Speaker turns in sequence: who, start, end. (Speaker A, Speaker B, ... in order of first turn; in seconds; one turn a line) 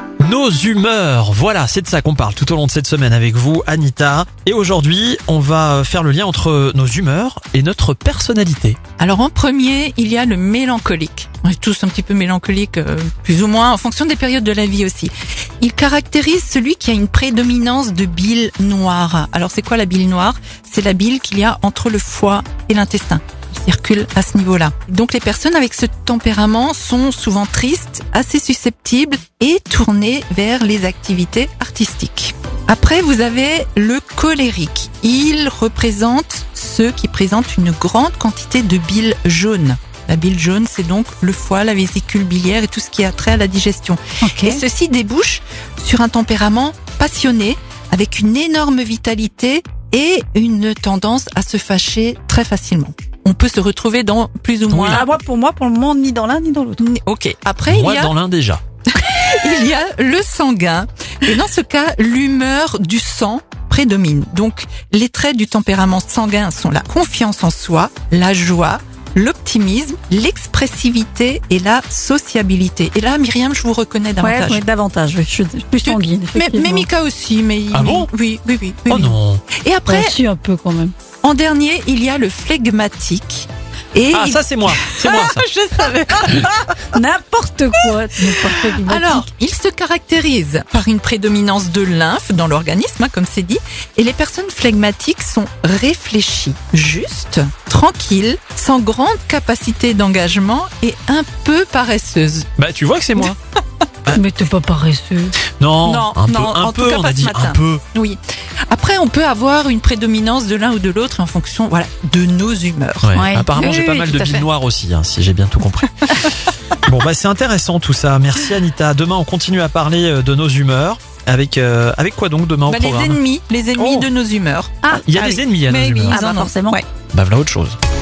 Speaker A: 0.2-8.8
Speaker B: 9.0-55.1
Speaker C: 44.2-44.6
Speaker A: 54.7-55.0
Speaker C: 54.9-56.8
Speaker B: 56.8-58.1
Speaker A: 57.7-58.6
Speaker B: 58.9-74.6
Speaker C: 74.2-76.9
Speaker B: 75.8-80.2
Speaker A: 77.7-78.1
Speaker A: 78.9-79.4
Speaker C: 79.9-80.9
Speaker B: 81.2-86.8
Speaker A: 84.1-85.4
Speaker C: 86.3-89.3
Speaker B: 88.4-102.5
Speaker A: 102.6-103.3
Speaker C: 104.1-105.4
Speaker A: 105.6-107.8
Speaker B: 105.8-114.5
Speaker A: 113.0-116.3
Speaker C: 113.1-113.8
Speaker A: 116.8-123.2
Speaker B: 122.7-126.8
Speaker A: 123.8-124.1
Speaker A: 125.1-126.2
Speaker C: 126.1-126.8
Speaker A: 127.1-127.8